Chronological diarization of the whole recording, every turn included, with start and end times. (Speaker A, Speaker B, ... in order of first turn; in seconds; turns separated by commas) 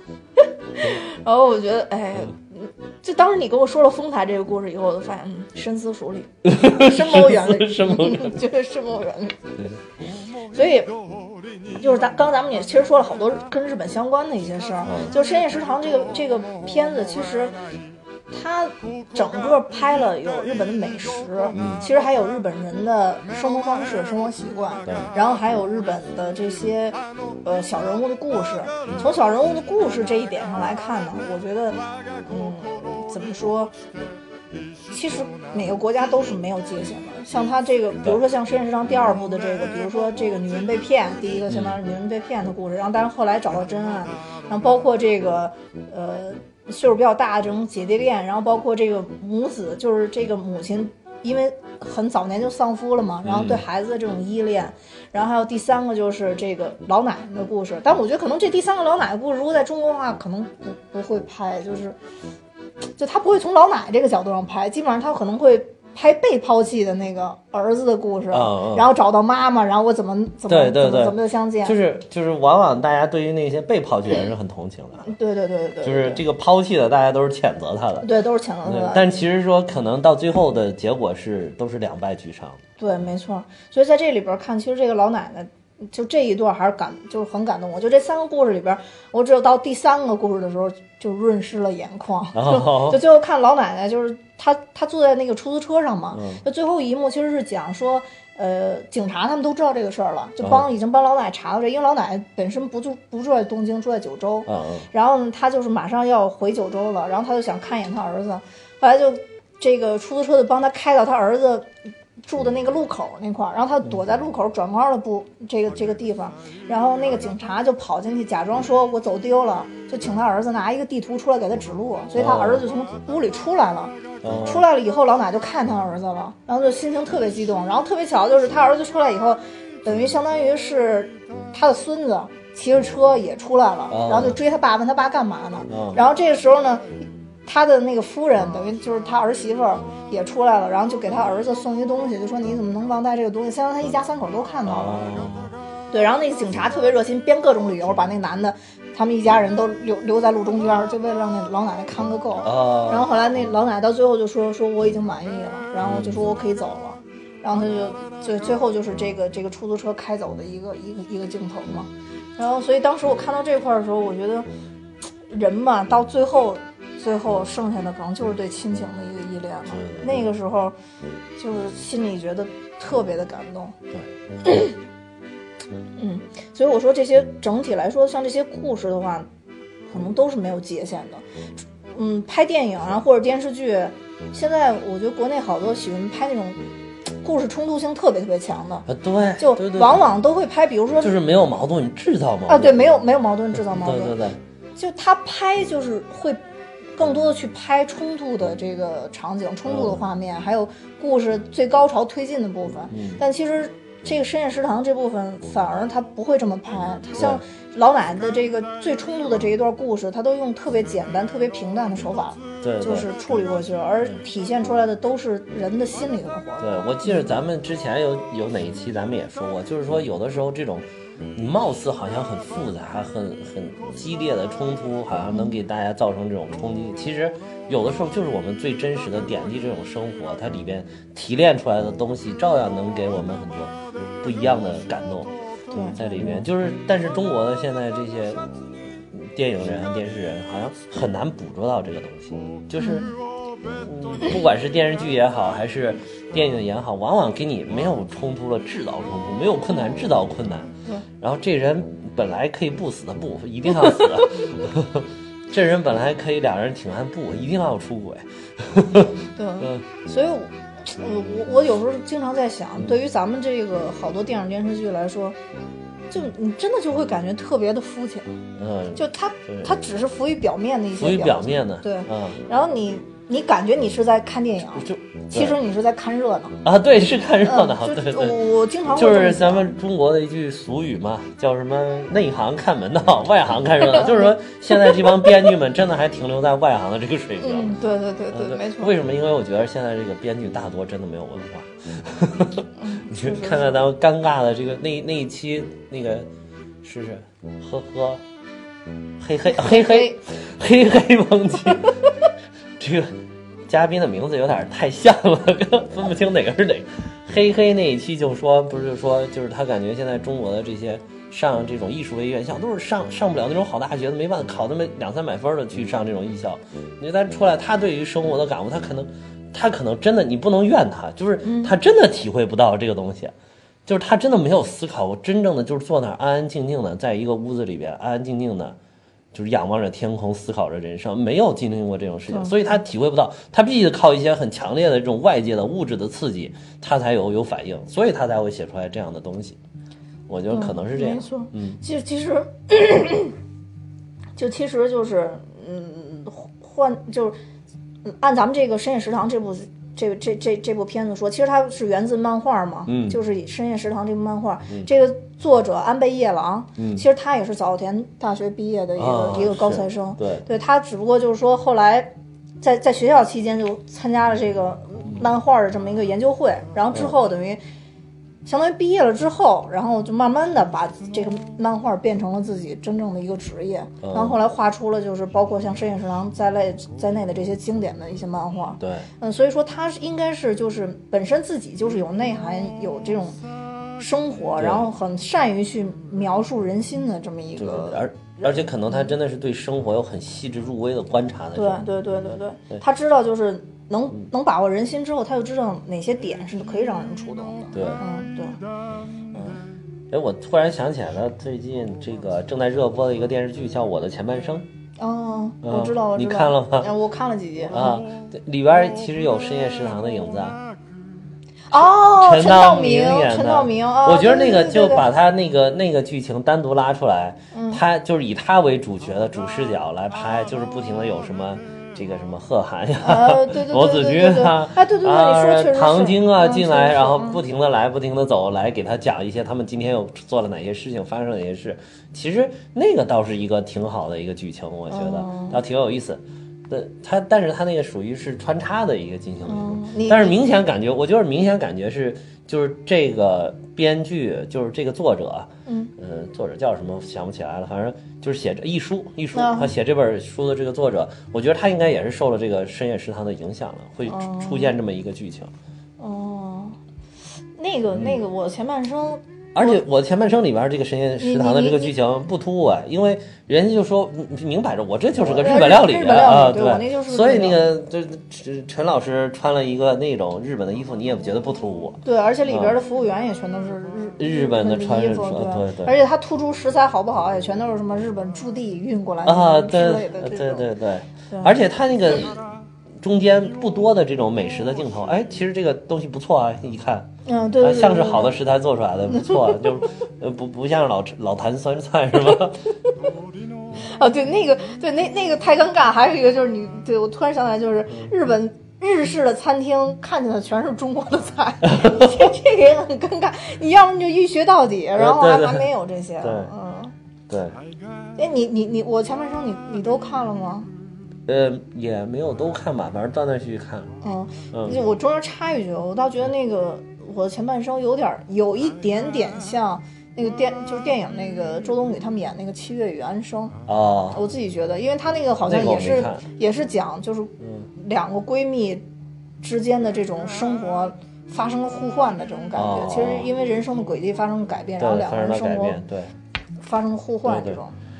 Speaker A: 0.8-9.4, Speaker B: 6.5-8.3, Speaker A: 10.5-10.9, Speaker A: 11.7-17.6, Speaker B: 14.8-15.1, Speaker A: 18.3-33.7, Speaker B: 21.5-21.8, Speaker A: 34.9-62.0, Speaker B: 41.5-41.8, Speaker B: 53.2-53.6, Speaker A: 63.0-71.8, Speaker B: 68.3-68.9, Speaker B: 70.5-75.1, Speaker A: 75.0-76.2, Speaker B: 75.8-78.1, Speaker A: 78.0-79.1, Speaker B: 78.7-82.6, Speaker A: 82.8-111.7, Speaker B: 92.3-93.0, Speaker B: 96.1-96.4, Speaker B: 104.5-104.9, Speaker A: 112.2-145.1, Speaker B: 122.2-122.7, Speaker B: 124.2-124.7, Speaker B: 133.9-134.4, Speaker B: 135.7-136.0, Speaker B: 144.7-145.5, Speaker A: 145.9-164.5, Speaker B: 152.4-153.1, Speaker B: 155.8-156.3, Speaker A: 165.3-170.8, Speaker B: 169.7-170.2, Speaker A: 171.4-173.8, Speaker A: 174.4-174.8, Speaker A: 176.0-179.3, Speaker A: 179.9-181.2, Speaker A: 181.9-186.6, Speaker A: 187.2-188.9, Speaker B: 188.9-190.1, Speaker A: 189.4-191.2, Speaker B: 191.0-192.9, Speaker A: 192.5-194.2, Speaker B: 193.7-194.4, Speaker A: 194.8-196.4, Speaker A: 197.0-217.3, Speaker B: 199.7-200.0, Speaker B: 202.9-203.2, Speaker B: 207.2-207.4, Speaker B: 212.6-213.1, Speaker B: 216.6-235.3, Speaker A: 235.7-236.3, Speaker B: 235.9-238.4, Speaker B: 239.1-243.1, Speaker A: 242.8-243.1, Speaker B: 243.8-259.8, Speaker A: 253.8-254.1, Speaker A: 259.3-265.4, Speaker A: 266.1-268.4, Speaker B: 268.6-269.7, Speaker A: 268.9-276.6, Speaker B: 271.0-272.4, Speaker B: 274.8-275.6, Speaker B: 276.6-287.7, Speaker A: 277.4-279.7, Speaker A: 283.9-285.2, Speaker A: 287.4-288.9, Speaker B: 288.3-296.3, Speaker A: 292.8-293.9, Speaker B: 296.8-298.2, Speaker B: 299.2-301.9, Speaker A: 299.5-300.2, Speaker A: 301.8-302.3, Speaker B: 302.8-323.3, Speaker A: 321.4-321.8, Speaker B: 323.9-328.8, Speaker B: 329.3-339.6, Speaker A: 332.3-332.6, Speaker B: 340.3-341.8, Speaker A: 340.5-343.4, Speaker A: 344.4-347.4, Speaker A: 348.1-367.6, Speaker B: 352.9-353.2, Speaker B: 356.8-357.0, Speaker B: 359.0-360.4, Speaker A: 368.4-383.4, Speaker B: 374.0-374.4, Speaker B: 378.8-379.1, Speaker A: 384.0-389.1, Speaker B: 384.6-384.9, Speaker B: 387.6-391.9, Speaker A: 391.6-398.6, Speaker B: 397.7-398.0, Speaker B: 400.1-404.7, Speaker A: 405.0-408.0, Speaker B: 405.6-406.9, Speaker B: 407.7-410.6, Speaker A: 411.7-415.1, Speaker B: 412.1-455.5, Speaker A: 417.5-417.8, Speaker A: 423.0-427.4, Speaker A: 434.9-435.6, Speaker A: 439.5-440.4, Speaker A: 445.7-445.9, Speaker A: 449.3-449.7, Speaker A: 454.1-454.8, Speaker A: 456.0-456.8, Speaker A: 457.6-459.8, Speaker B: 459.6-472.8, Speaker A: 461.2-461.9, Speaker A: 465.2-467.6, Speaker A: 472.0-480.7, Speaker B: 474.2-475.9, Speaker B: 479.2-482.4, Speaker A: 481.3-481.6, Speaker B: 483.0-487.1, Speaker A: 487.3-488.4, Speaker B: 487.6-492.6, Speaker A: 489.1-489.8, Speaker A: 493.8-506.9, Speaker B: 501.7-502.3, Speaker B: 504.9-505.7, Speaker B: 506.2-506.5, Speaker B: 507.3-507.6, Speaker A: 508.2-510.7, Speaker B: 511.3-513.9, Speaker A: 514.0-523.6, Speaker B: 514.5-514.8, Speaker B: 523.7-524.2, Speaker A: 524.1-528.8, Speaker B: 525.5-526.2, Speaker A: 529.4-535.8, Speaker B: 532.5-533.3, Speaker B: 534.8-536.1, Speaker A: 536.6-537.8, Speaker B: 537.2-537.6